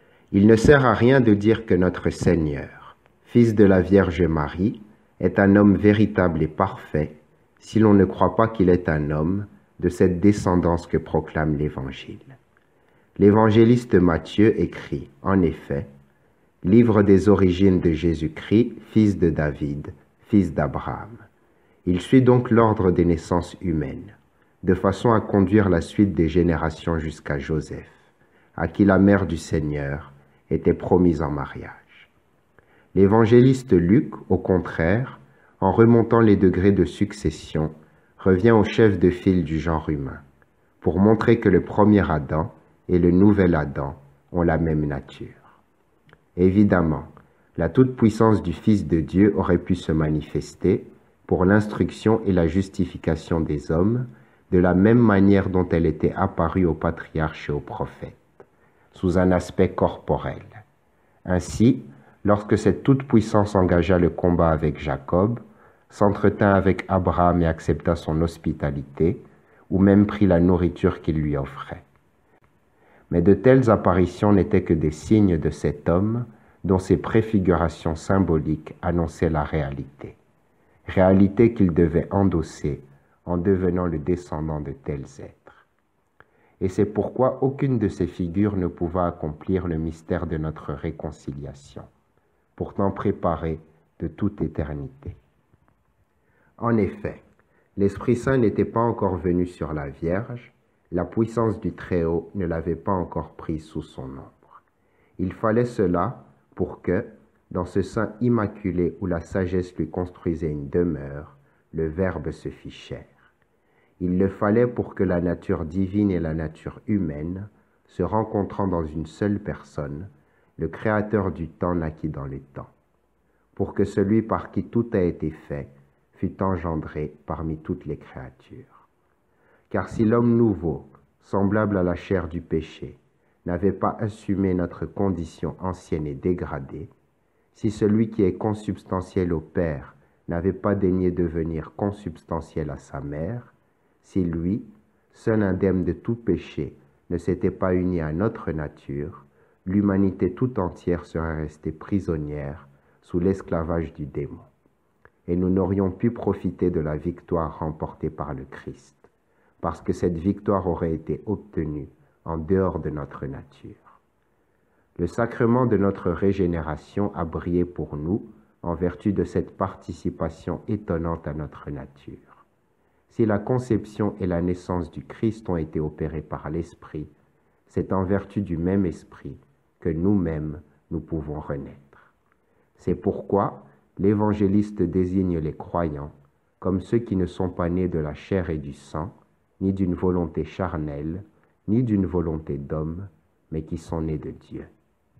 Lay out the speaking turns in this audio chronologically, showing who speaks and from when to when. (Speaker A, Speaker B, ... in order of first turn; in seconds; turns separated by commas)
Speaker A: 0.3-12.4, Speaker A: 13.2-15.9, Speaker A: 16.6-21.3, Speaker A: 21.9-32.1, Speaker A: 32.9-40.2, Speaker A: 40.8-45.6, Speaker A: 46.4-58.4, Speaker A: 58.9-60.6, Speaker A: 61.2-71.8, Speaker A: 73.1-80.2, Speaker A: 80.9-85.7, Speaker A: 86.6-91.9, Speaker A: 92.6-95.2, Speaker A: 96.6-97.2, Speaker A: 97.8-104.6, Speaker A: 105.2-113.3, Speaker A: 114.0-122.7, Speaker A: 123.5-128.9, Speaker A: 129.7-136.9, Speaker A: 137.5-154.5, Speaker A: 155.3-164.0, Speaker A: 165.0-172.4, Speaker A: 173.1-177.1, Speaker A: 177.7-182.1, Speaker A: 182.8-194.7